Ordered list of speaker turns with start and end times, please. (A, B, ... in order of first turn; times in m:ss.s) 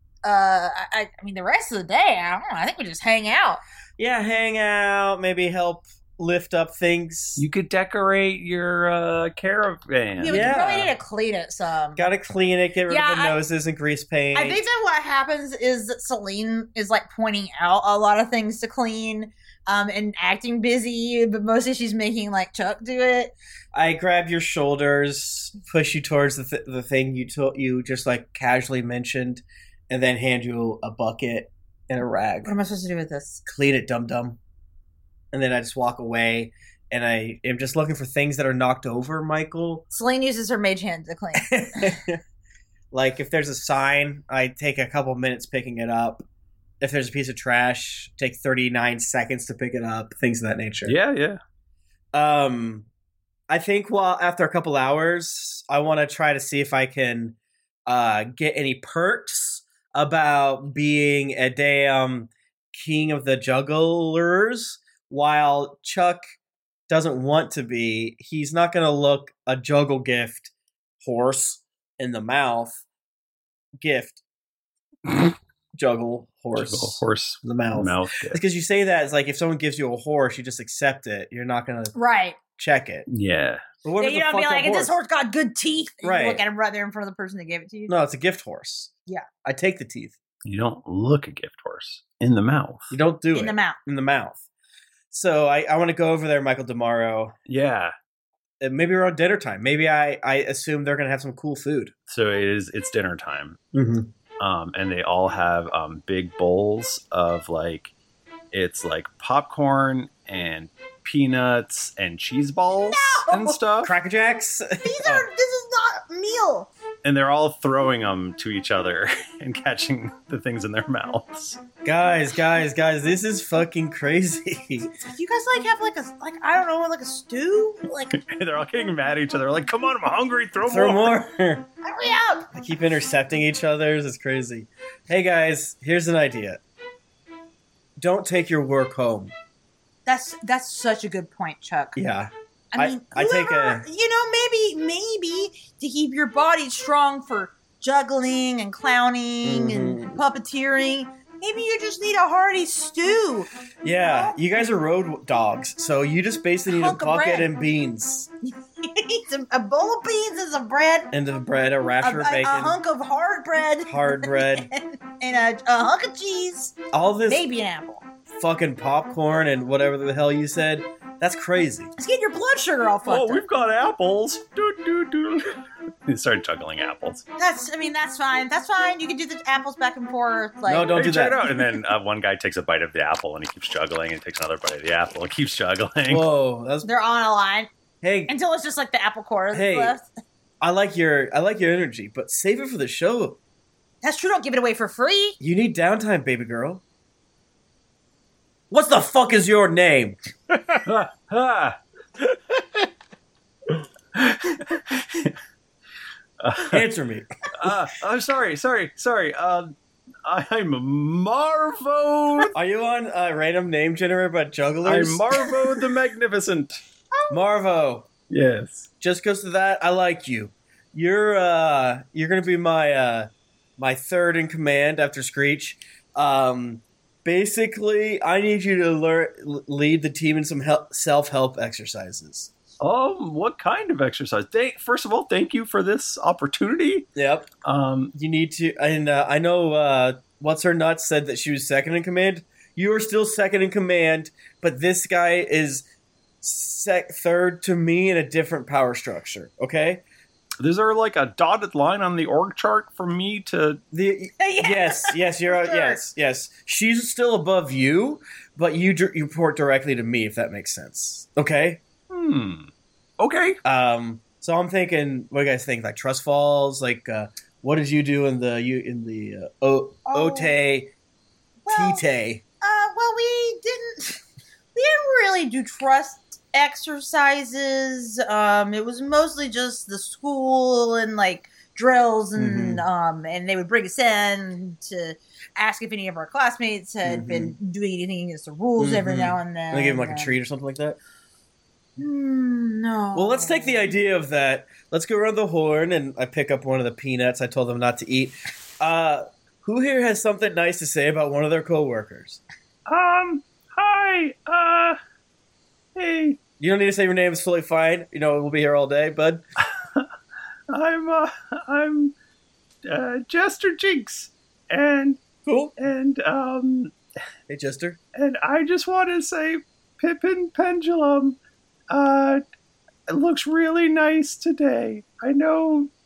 0:00.2-0:03.6 A
0:04.0-0:07.4 B
0:07.4-0:10.6 C
0:10.2-0:12.1 A
0:10.2-0:10.9 B
0:12.0-0:14.6 B
0:12.9-0:13.4 A
0:14.3-0:23.3 A
0:23.7-0:32.5 B
0:32.4-0:33.4 A
0:33.4-0:34.4 B
0:35.3-0:39.8 B
0:39.9-0:41.9 A
0:41.4-0:42.2 B
0:42.9-0:46.2 B
0:46.8-0:51.0 B
0:50.8-0:51.4 C
0:52.1-0:52.9 B
0:53.5-1:06.2 B
1:06.9-1:10.5 B
1:11.0-1:12.8 B
1:13.8-1:14.2 B
1:15.1-1:15.3 C
1:15.8-1:21.9 B
1:16.5-1:18.4 C
1:21.9-1:22.4 A
1:22.6-1:23.0 B
1:23.1-1:23.6 C
1:23.8-1:24.9 B
1:24.0-1:27.9 A
1:26.0-1:26.4 B
1:27.9-1:28.9 B
1:29.4-1:30.2 B
1:30.4-1:33.0 C
1:32.9-1:34.4 B
1:33.3-1:33.8 A
1:35.1-1:37.3 B
1:37.5-1:37.9 C
1:38.6-1:41.9 B
1:42.1-1:43.6 C
1:43.7-1:44.1 B
1:44.4-1:47.9 C
1:48.5-1:53.9 C
1:52.9-1:53.6 A
1:53.8-1:55.2 B
1:54.8-1:56.7 A
1:57.0-2:01.6 C
2:01.8-2:04.9 B
2:05.0-2:08.1 A
2:08.1-2:11.2 C
2:10.7-2:11.7 B
2:11.8-2:12.5 A
2:12.5-2:16.6 B
2:18.0-2:19.3 B
2:20.0-2:22.0 A
2:21.9-2:23.8 B
2:22.7-2:34.4 A
2:29.4-2:30.2 B
2:33.8-2:38.3 B
2:36.7-2:37.5 A
2:38.4-2:41.1 A
2:41.1-2:42.8 B
2:42.0-2:46.7 A
2:43.9-2:44.7 B
2:46.9-2:47.4 B
2:47.3-2:48.0 A
2:48.4-2:51.9 B
2:52.0-2:53.4 A
2:53.0-2:55.6 C
2:56.1-2:57.2 C
2:57.4-3:01.0 A
3:00.6-3:01.5 B
3:01.0-3:06.3 C
3:06.1-3:06.9 B
3:06.8-3:07.7 A
3:08.0-3:08.3 B
3:08.3-3:10.1 A
3:09.5-3:10.0 B
3:10.6-3:13.4 B
3:14.0-3:15.4 A
3:15.4-3:16.8 B
3:18.7-3:20.2 B
3:20.8-3:21.8 C
3:24.1-3:25.3 C
3:26.4-3:26.8 C
3:26.7-3:27.3 B
3:27.6-3:29.7 C
3:30.2-3:32.5 C
3:32.5-3:35.5 B
3:34.8-3:36.8 C
3:37.1-3:37.5 A
3:37.3-3:38.1 B
3:38.3-3:38.9 C
3:39.0-3:52.5 B
3:52.8-3:57.1 C
3:57.2-3:57.5 B
3:57.6-3:58.1 C
3:58.1-4:05.8 B
4:06.4-4:10.0 B
4:10.6-4:13.8 C
4:13.9-4:21.8 B
4:14.4-4:16.0 A
4:22.1-4:23.6 C
4:23.6-4:30.9 B
4:30.1-4:30.6 A
4:31.6-4:32.0 A
4:31.7-4:32.4 B
4:32.6-4:34.2 A
4:34.7-4:50.3 A
4:42.4-4:42.8 B
4:47.0-4:47.5 B
4:48.8-4:51.0 B
4:52.0-4:53.9 A
4:53.1-5:02.4 B
5:02.9-5:05.0 C
5:06.0-5:06.4 C
5:06.6-5:09.4 B
5:10.7-5:12.1 C
5:12.8-5:15.2 C
5:15.4-5:15.7 B
5:15.8-5:16.9 C
5:17.5-5:18.0 B
5:18.1-5:21.4 C
5:21.9-5:22.4 C
5:23.1-5:25.9 C